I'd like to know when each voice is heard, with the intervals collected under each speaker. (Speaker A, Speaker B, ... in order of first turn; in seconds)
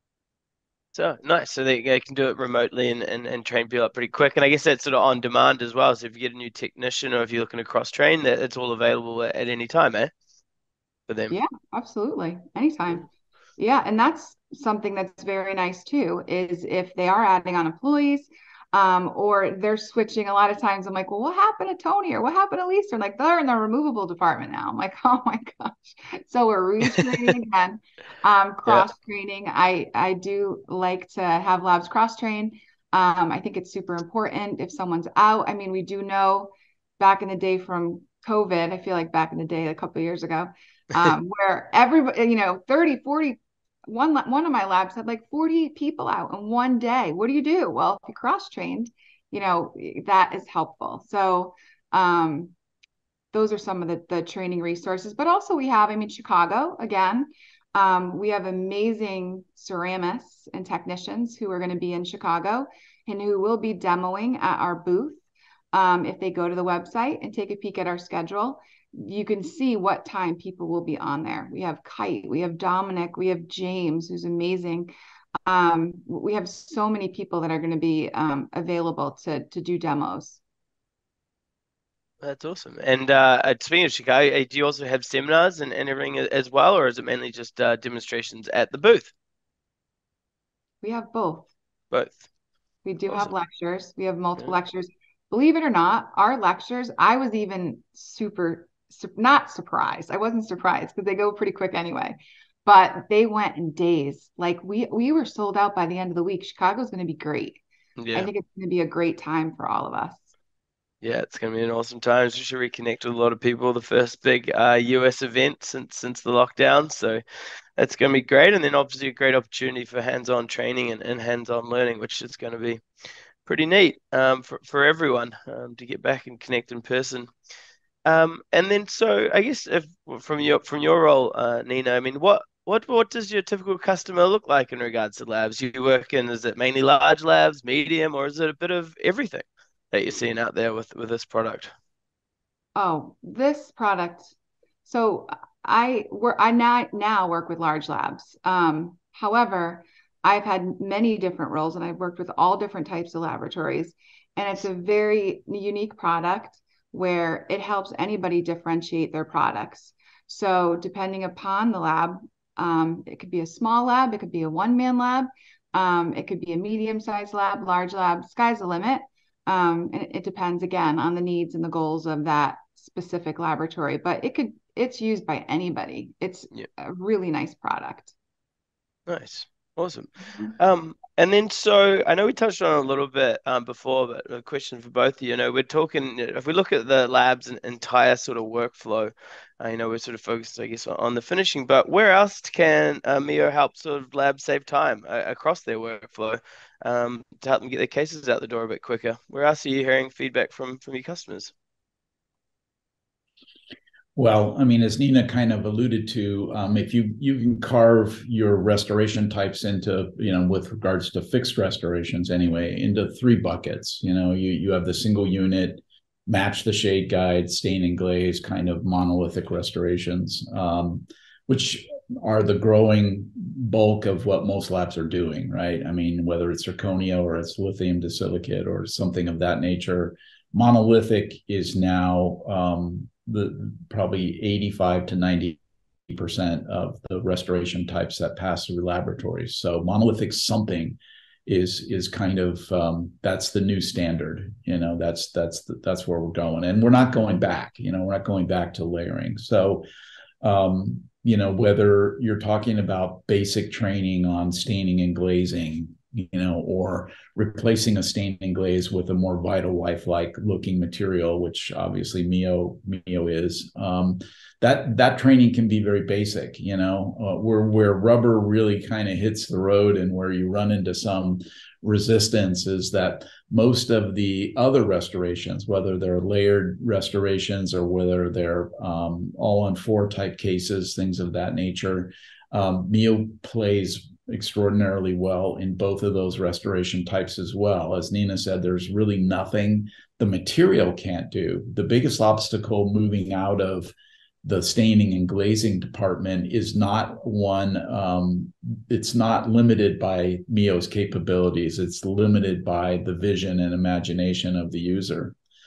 Speaker A: 0.9-10.1, 11.1-11.3, 82.2-89.1, 91.9-92.2, 108.0-108.3, 111.0-117.2, 117.8-122.8, 123.4-127.3, 128.1-141.7, 179.1-201.5
Speaker B: 11.3-13.1, 13.6-52.5, 53.3-65.2, 65.7-74.9, 75.5-80.4, 90.8-91.5, 92.8-107.6, 108.1-110.2, 142.8-144.3, 144.8-178.1
Speaker C: 204.2-249.8, 250.4-305.3